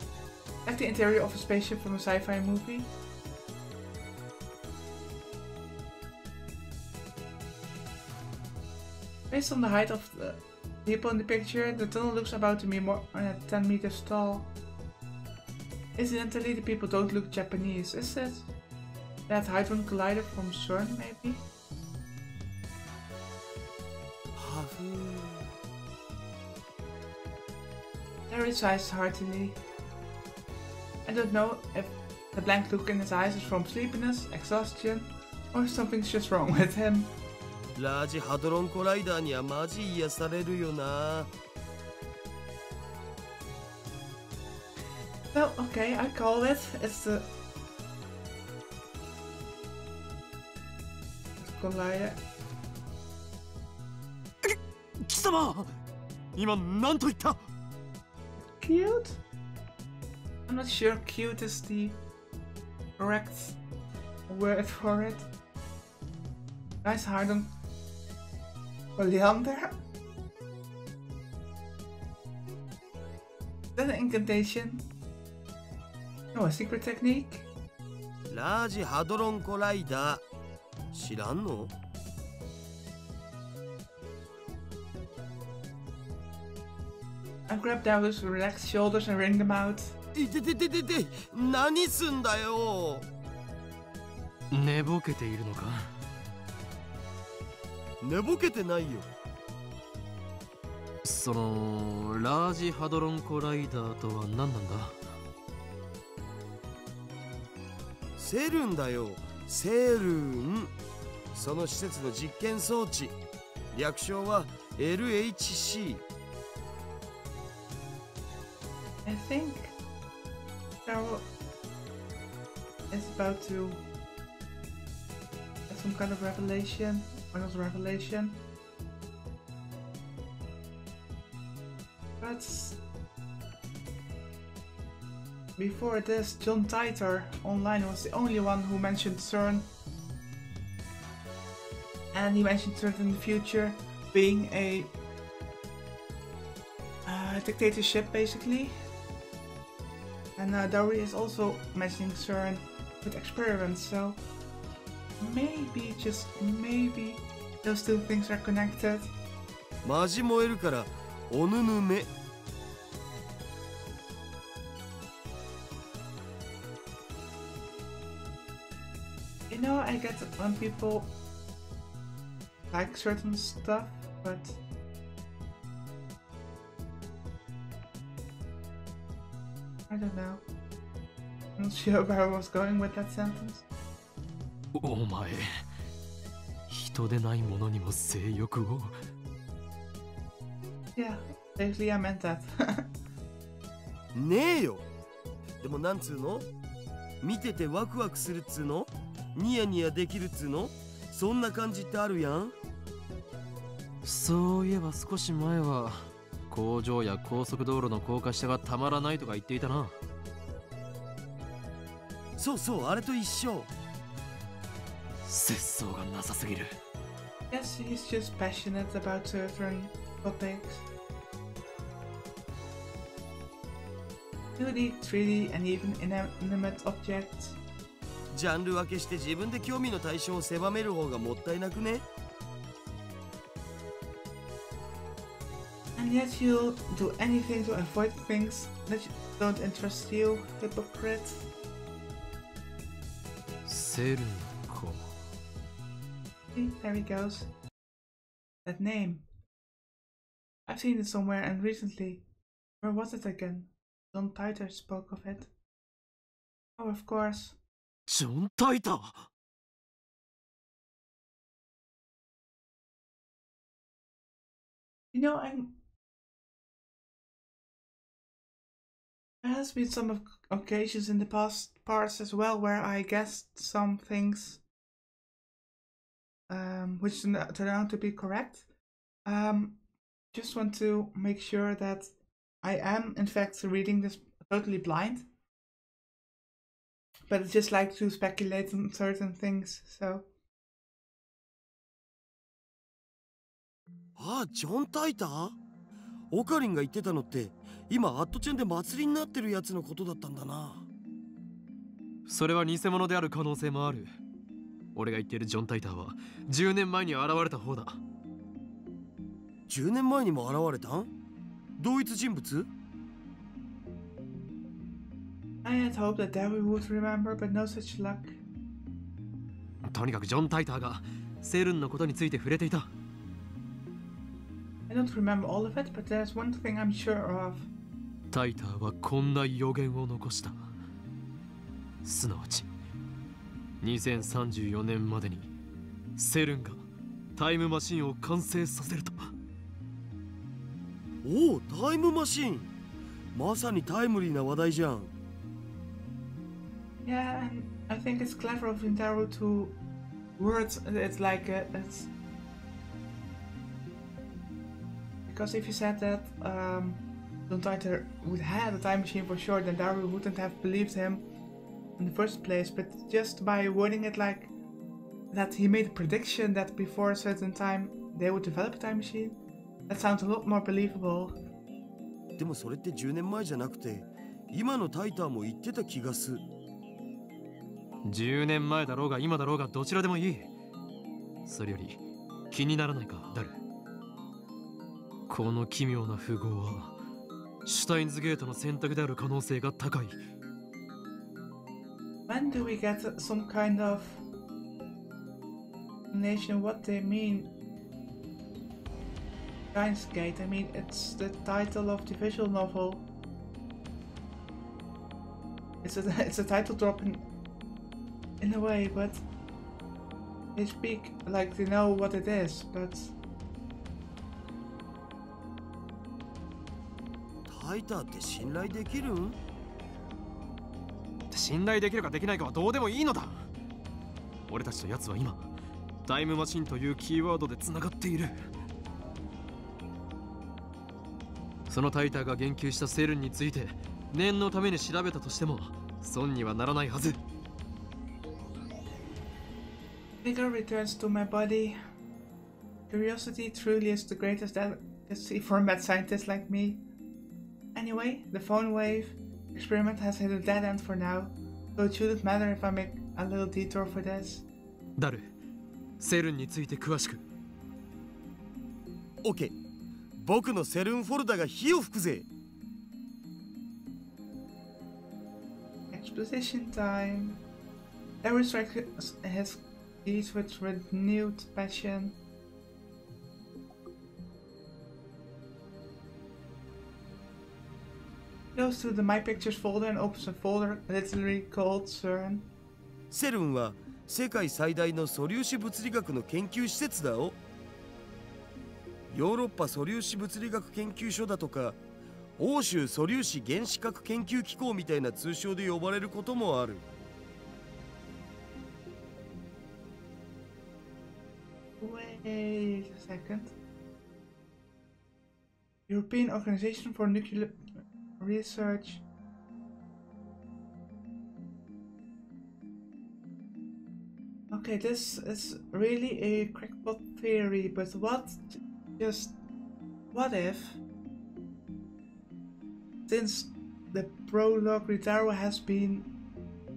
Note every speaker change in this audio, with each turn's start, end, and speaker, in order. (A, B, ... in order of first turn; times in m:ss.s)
0:00.6-0:02.9 A
0:09.3-0:14.5 A
0:16.0-0:18.5 A
0:19.3-0:21.5 A
0:24.4-0:25.5 B
0:28.3-0:29.6 A
0:31.1-0:37.1 A
0:37.8-0:41.3 B
0:45.3-0:47.3 A
0:51.4-0:52.2 A
0:54.4-0:55.8 C
0:56.4-0:57.4 C
0:58.4-0:59.2 A
1:00.5-1:02.0 A
1:03.0-1:03.6 A
1:04.3-1:05.3 A
1:06.8-1:07.5 A
1:09.0-1:09.7 A
1:13.8-1:14.9 A
1:16.3-1:17.5 A
1:18.3-1:20.2 B
1:20.9-1:21.7 B
1:27.5-1:30.0 A
1:30.1-1:33.1 B
1:34.5-1:35.9 C
1:38.0-1:39.1 B
1:41.0-1:45.1 C
1:48.2-1:50.7 B
1:51.3-1:53.2 B
1:53.7-1:56.0 B
1:59.0-1:59.8 A
2:00.8-2:01.3 A
2:02.9-2:03.9 A
2:05.7-2:08.4 A
2:12.2-2:12.8 A
2:15.6-2:19.7 A
2:22.1-2:24.9 A
2:27.1-2:28.8 A
2:30.4-2:34.2 A
2:35.2-2:39.1 A
2:39.8-2:42.1 B
2:49.5-2:51.1 A
2:52.7-2:54.6 A
2:59.9-3:00.4 A
3:01.6-3:03.6 A
3:04.7-3:05.6 C
3:06.7-3:08.9 C
3:11.0-3:12.9 A
3:14.1-3:14.8 B
3:15.6-3:16.5 B
3:17.2-3:22.6 B
3:24.0-3:29.9 C
3:32.4-3:33.7 B
3:35.2-3:36.7 C
3:37.5-3:40.9 A
3:44.6-3:47.6 A
3:48.3-3:52.0 B
3:56.0-4:01.5 A
4:03.6-4:05.2 C
4:06.5-4:07.5 A
4:08.6-4:09.3 A
4:10.7-4:12.2 A
4:12.8-4:15.5 A
4:16.8-4:17.6 A
4:18.1-4:19.3 C
4:25.1-4:25.8 A
4:29.4-4:34.6 A
4:36.5-4:38.6 A
4:39.3-4:39.8 A
4:40.3-4:45.3 A
4:47.3-4:50.3 A
4:54.2-4:55.6 B
4:56.3-5:00.9 B
5:02.3-5:04.1 C
5:05.0-5:08.0 C
5:09.7-5:11.1 B
5:11.8-5:12.7 B
5:15.6-5:18.4 A
5:19.8-5:22.9 C
5:24.9-5:27.7 A
5:28.3-5:30.7 C
5:32.0-5:32.7 C
5:33.8-5:35.5 C
5:36.2-5:36.8 C
5:37.4-5:39.3 C
5:41.2-5:42.7 B
5:43.4-5:45.1 B
5:47.0-5:49.8 A
5:50.4-5:52.1 A
5:55.3-6:01.2 A
6:02.0-6:04.5 A
6:05.3-6:11.4 A
6:12.4-6:16.4 B
6:18.0-6:20.5 C
6:21.5-6:22.0 C
6:22.5-6:23.6 C
6:25.3-6:27.0 C
6:27.6-6:30.2 C
6:32.3-6:34.2 A
6:36.1-6:37.5 A
6:39.7-6:43.1 A
6:45.8-6:47.2 A
6:48.4-6:49.2 A
6:50.6-6:53.2 A
6:57.5-6:59.4 B
7:01.3-7:03.5 C
7:04.5-7:05.5 C
7:06.1-7:08.4 C
7:11.7-7:17.2 C
7:20.2-7:21.8 A
7:22.9-7:26.8 A
7:27.8-7:34.5 A
7:35.0-7:35.3 C
7:36.0-7:37.2 C
7:39.2-7:39.5 B
7:40.2-7:42.3 B
7:45.9-7:47.4 A
7:48.2-7:52.2 A
7:58.6-8:02.5 A
8:03.1-8:07.4 B
8:09.1-8:11.8 B
8:12.4-8:16.8 B
8:21.8-8:23.6 A
8:25.9-8:27.6 A
8:28.2-8:29.0 A
8:34.5-8:39.4 A
8:40.1-8:40.8 A
8:43.1-8:46.1 A